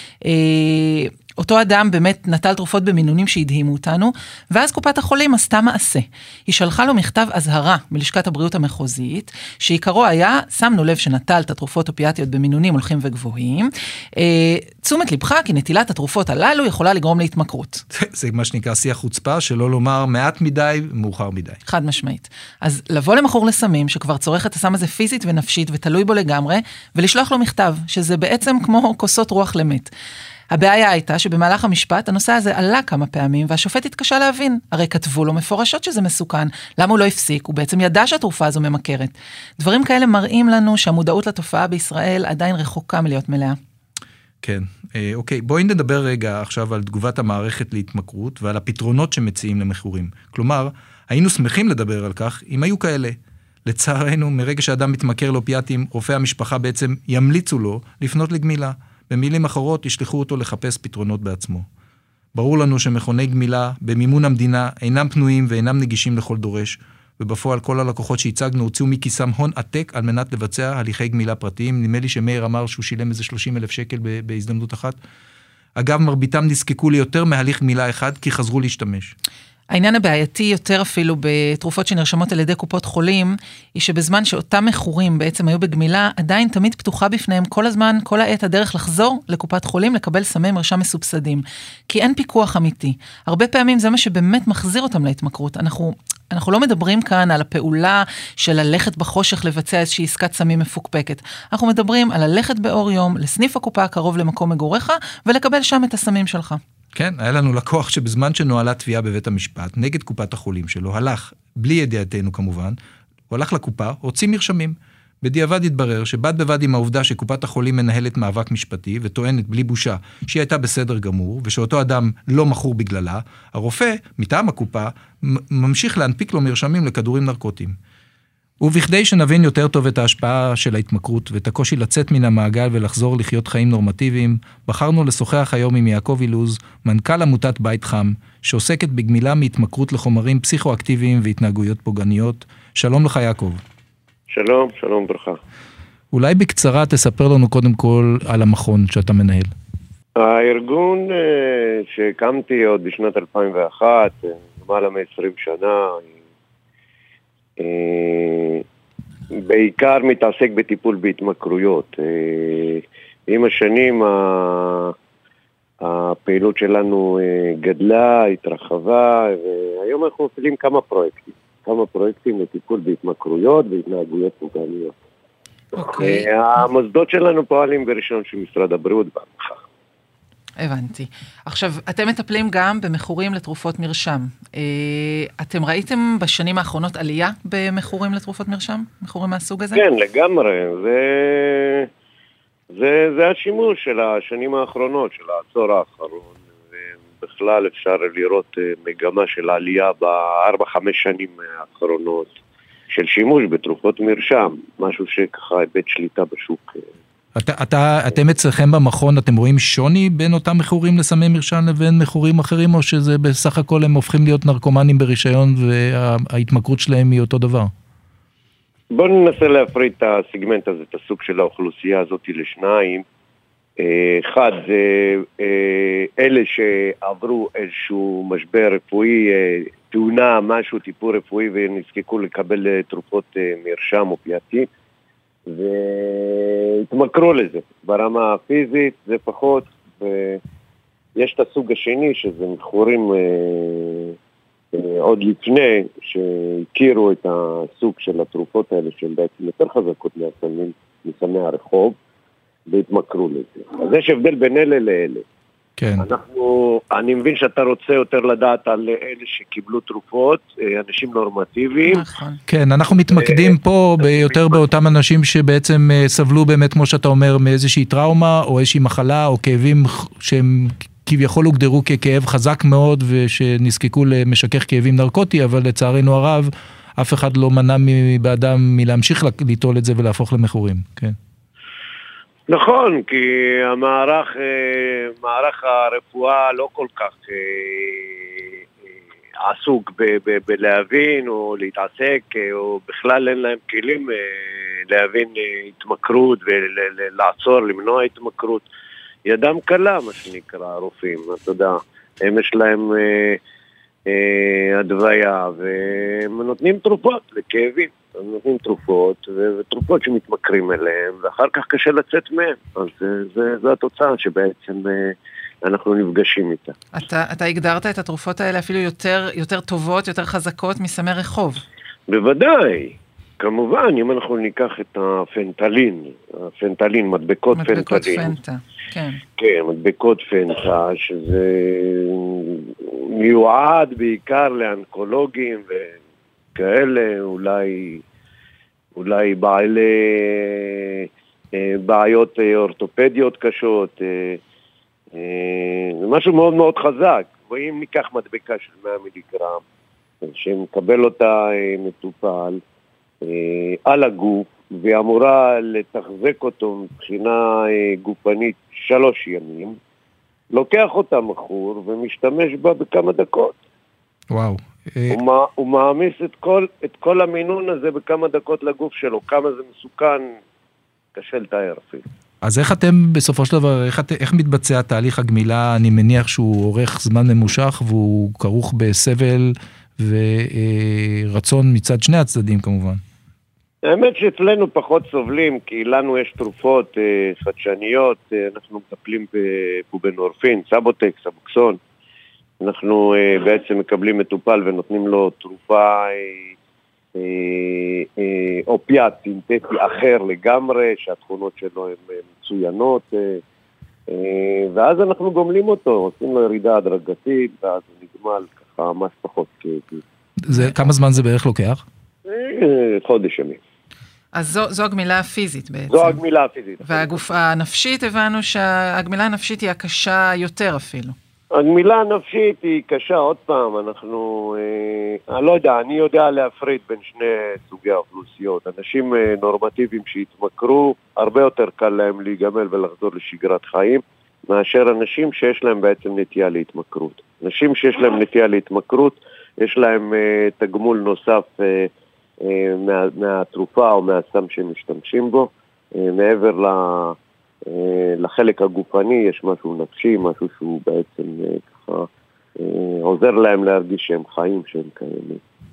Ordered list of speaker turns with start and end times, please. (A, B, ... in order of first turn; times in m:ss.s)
0:00.2-0:17.8 A
0:17.9-0:21.6 B
0:21.7-0:29.9 A
0:30.5-0:43.6 A
0:44.4-1:01.7 B
1:02.4-1:15.0 B
1:15.8-1:19.1 B
1:19.7-1:46.6 A
1:47.0-1:52.8 B
1:53.3-2:07.8 B
2:08.6-2:23.6 B
2:24.3-2:25.4 C
2:26.1-2:29.5 B
2:30.2-2:36.2 C
2:37.6-2:38.6 C
2:39.5-2:44.9 C
2:45.8-2:54.9 C
2:55.8-2:59.6 C
2:55.8-2:56.3 A
3:00.6-3:09.8 A
3:09.7-3:11.9 C
3:12.8-3:22.3 C
3:22.9-3:26.8 C
3:27.4-3:37.7 B
3:38.9-3:43.0 C
3:43.8-3:54.7 C
3:55.5-4:00.4 C
4:01.2-4:04.2 C
4:04.7-4:12.0 C
4:12.7-4:15.2 C
4:15.8-4:16.0 B
4:16.0-4:22.0 C
4:21.9-4:22.4 A
4:22.5-4:41.2 B
4:23.1-4:24.6 C
4:42.5-4:48.6 C
4:49.4-4:58.7 C
4:59.2-5:03.4 C
5:04.1-5:16.8 C
5:16.9-5:21.6 A
5:22.1-5:28.3 C
5:27.5-5:29.2 A
5:29.4-5:36.0 C
5:36.6-5:38.0 C
5:39.0-5:44.4 C
5:45.1-5:49.6 C
5:50.2-5:52.6 C
5:53.2-5:59.8 C
6:00.5-6:03.6 C
6:04.3-6:05.2 B
6:05.1-6:10.3 C
6:11.2-6:12.0 C
6:12.4-6:23.0 B
6:23.8-6:31.8 C
6:32.6-6:36.5 C
6:37.2-6:43.4 C
6:44.1-6:50.0 C
6:50.4-6:51.8 B
6:50.5-6:50.8 A
6:52.3-6:53.6 C
6:54.3-6:56.2 A
6:55.9-6:57.2 C
6:56.8-7:01.2 A
7:01.5-7:21.9 C
7:22.5-7:27.2 C
7:27.7-7:32.1 C
7:32.6-7:35.4 C